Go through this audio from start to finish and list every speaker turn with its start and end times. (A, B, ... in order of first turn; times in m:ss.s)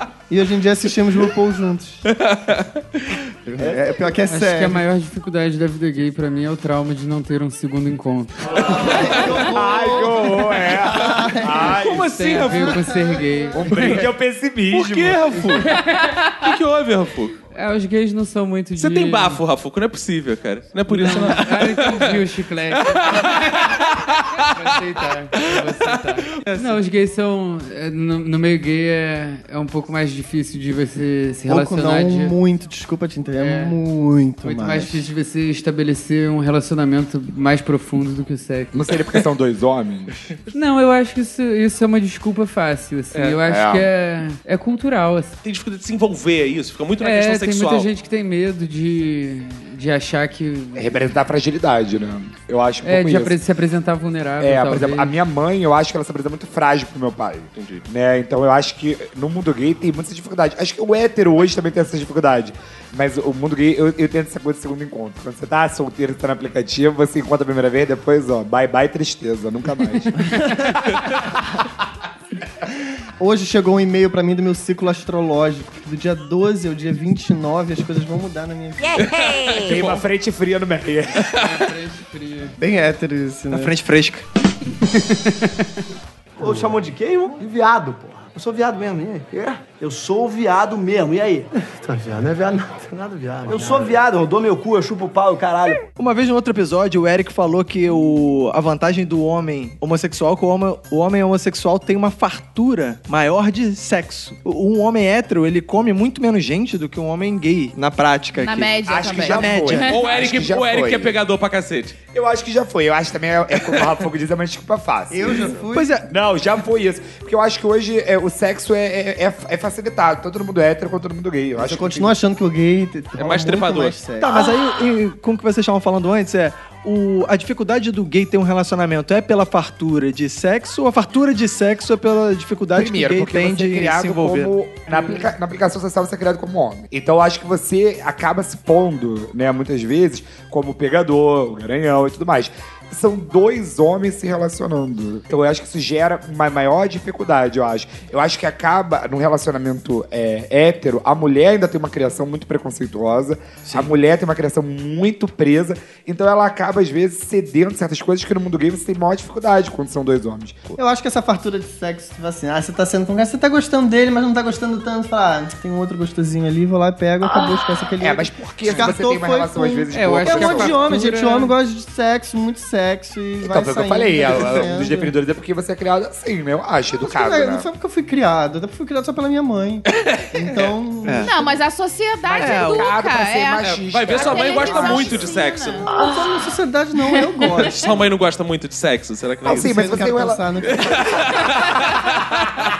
0:00.3-0:02.0 A
0:02.1-0:03.2 B
0:03.4-0:04.8 A
0:04.3-0:08.6 C
0:08.6-0:11.8 A
0:08.6-0:12.1 D
0:08.8-0:09.4 B
0:11.6-0:12.9 B
0:12.0-0:14.0 C
0:12.4-0:13.5 A
0:13.5-0:15.4 D
0:13.7-0:14.0 B
0:14.7-0:15.8 B
0:15.4-0:16.1 C
0:16.4-0:17.4 B
0:17.5-0:19.4 C
0:18.8-0:22.2 B
0:20.9-0:23.7 C
0:22.8-0:24.4 B
0:24.4-0:32.4 C
0:25.4-0:26.6 B
0:31.5-0:35.0 A
0:33.4-0:33.8 C
0:34.4-0:38.7 C
0:38.7-0:40.1 D
0:40.5-0:45.4 C
0:43.1-0:43.4 B
0:43.4-0:43.9 D
0:45.4-0:47.9 B
0:47.0-0:51.0 C
0:50.7-0:53.4 D
0:52.8-0:55.1 C
0:54.4-1:11.0 D
0:57.6-0:57.8 B
1:13.2-1:19.2 A
1:19.0-1:20.0 B
1:19.5-1:21.6 D
1:21.4-1:22.6 C
1:22.6-1:23.7 A
1:23.5-1:24.2 E
1:24.8-1:25.7 C
1:26.4-1:35.9 F
1:36.0-1:49.9 E
1:48.4-1:50.0 G
1:48.8-1:51.2 D
1:49.9-1:52.0 B
1:52.1-1:55.6 D
1:55.1-1:56.0 A
1:55.7-1:56.1 E
1:56.1-2:02.2 D
2:01.6-2:04.4 A
2:03.2-2:04.0 B
2:04.2-2:14.6 E
2:12.7-2:40.8 D
2:40.8-2:55.1 A
2:48.0-2:50.9 D
2:49.9-2:51.5 C
2:53.4-2:57.7 D
2:57.0-3:01.6 A
3:00.0-3:00.7 B
3:01.0-3:01.3 E
3:01.2-3:05.8 G
3:02.2-3:05.3 D
3:02.4-3:02.9 E
3:03.6-3:05.8 B
3:05.8-3:08.0 A
3:07.7-3:10.0 B
3:09.4-3:12.5 D
3:09.4-3:11.3 A
3:10.7-3:12.1 B